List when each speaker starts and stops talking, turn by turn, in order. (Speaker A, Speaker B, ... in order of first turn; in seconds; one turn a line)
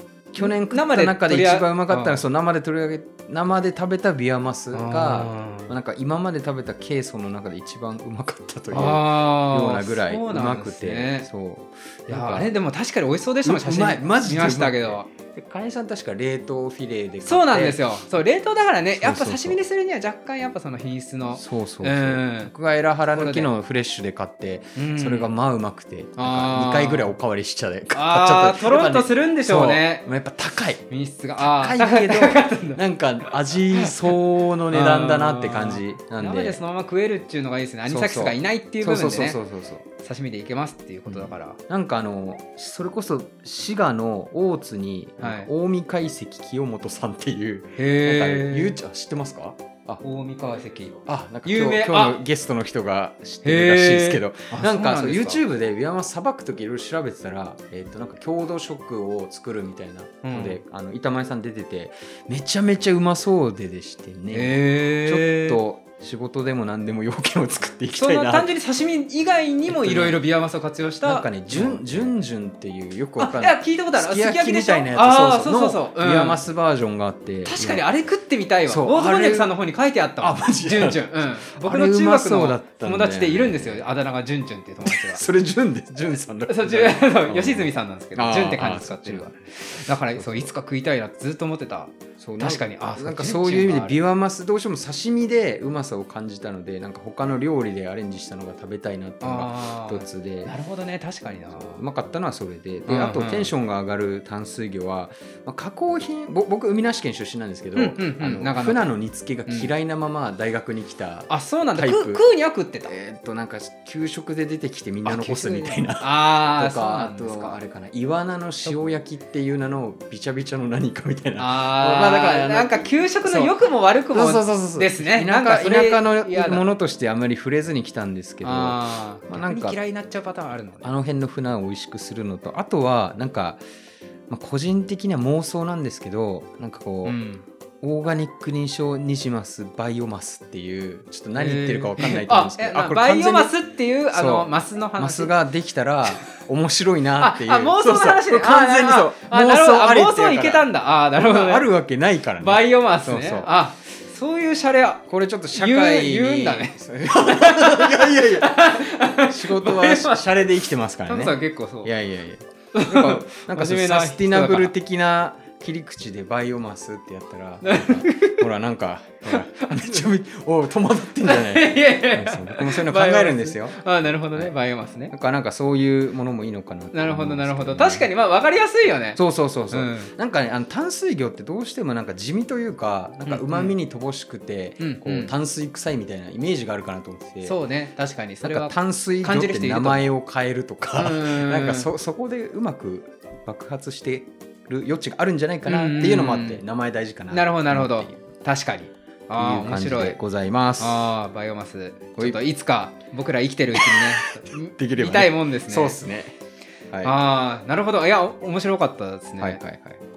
Speaker A: 0.3-12.5
Speaker B: 0.4-2.2
Speaker B: 4.7-5.7
Speaker B: 8.7-11.3
Speaker B: 12.1-15.1
Speaker A: 13.4-17.9
Speaker B: 17.2-22.5
Speaker A: 19.0-19.6
Speaker A: 21.4-30.9
Speaker B: 23.1-23.5
Speaker B: 24.8-25.3
Speaker B: 26.2-27.1
Speaker B: 27.9-30.1
Speaker B: 30.9-32.8
Speaker A: 31.4-36.6
Speaker B: 33.7-34.2
Speaker B: 34.7-39.4
Speaker A: 37.9-39.9
Speaker B: 40.0-41.6
Speaker A: 41.1-50.0
Speaker B: 45.2-45.5
Speaker B: 47.8-48.8
Speaker B: 50.0-52.2
Speaker A: 51.1-68.5
Speaker B: 53.4-55.4
Speaker B: 60.2-60.6
Speaker B: 64.3-65.6
Speaker B: 67.9-72.1
Speaker A: 69.7-70.2
Speaker A: 71.0-77.8
Speaker B: 73.2-76.4
Speaker B: 77.5-85.2
Speaker A: 78.7-79.5
Speaker A: 80.2-83.9
Speaker A: 84.8-89.3
Speaker B: 86.5-94.0
Speaker A: 89.9-90.5
Speaker A: 92.2-100.5
Speaker B: 99.2-101.8
Speaker A: 101.5-112.2
Speaker B: 102.9-103.5
Speaker B: 107.8-108.9
Speaker B: 111.3-112.9
Speaker A: 112.8-123.5
Speaker B: 115.0-117.6
Speaker B: 121.4-126.7
Speaker A: 124.1-129.8
Speaker B: 128.4-130.9
Speaker A: 130.8-133.6
Speaker A: 134.3-137.2
Speaker B: 137.1-137.4
Speaker A: 137.8-143.5
Speaker B: 141.4-145.3
Speaker A: 144.1-153.6
Speaker B: 147.2-151.7
Speaker B: 152.4-160.4
Speaker A: 155.1-173.8
Speaker B: 161.1-161.9
Speaker B: 162.7-164.7
Speaker B: 167.6-168.4
Speaker B: 169.3-170.1
Speaker B: 171.2-175.1
Speaker A: 175.1-178.1
Speaker B: 176.9-179.2
Speaker A: 179.2-187.6
Speaker B: 179.7-180.1
Speaker B: 183.3-183.7
Speaker B: 184.8-185.3
Speaker B: 187.4-190.1
Speaker A: 188.4-198.2
Speaker B: 191.0-191.9
Speaker B: 195.7-196.6
Speaker B: 197.3-200.2
Speaker A: 199.3-201.1
Speaker B: 200.8-206.0
Speaker A: 203.8-206.3
Speaker A: 206.9-207.2
Speaker B: 207.0-209.6
Speaker A: 209.4-210.0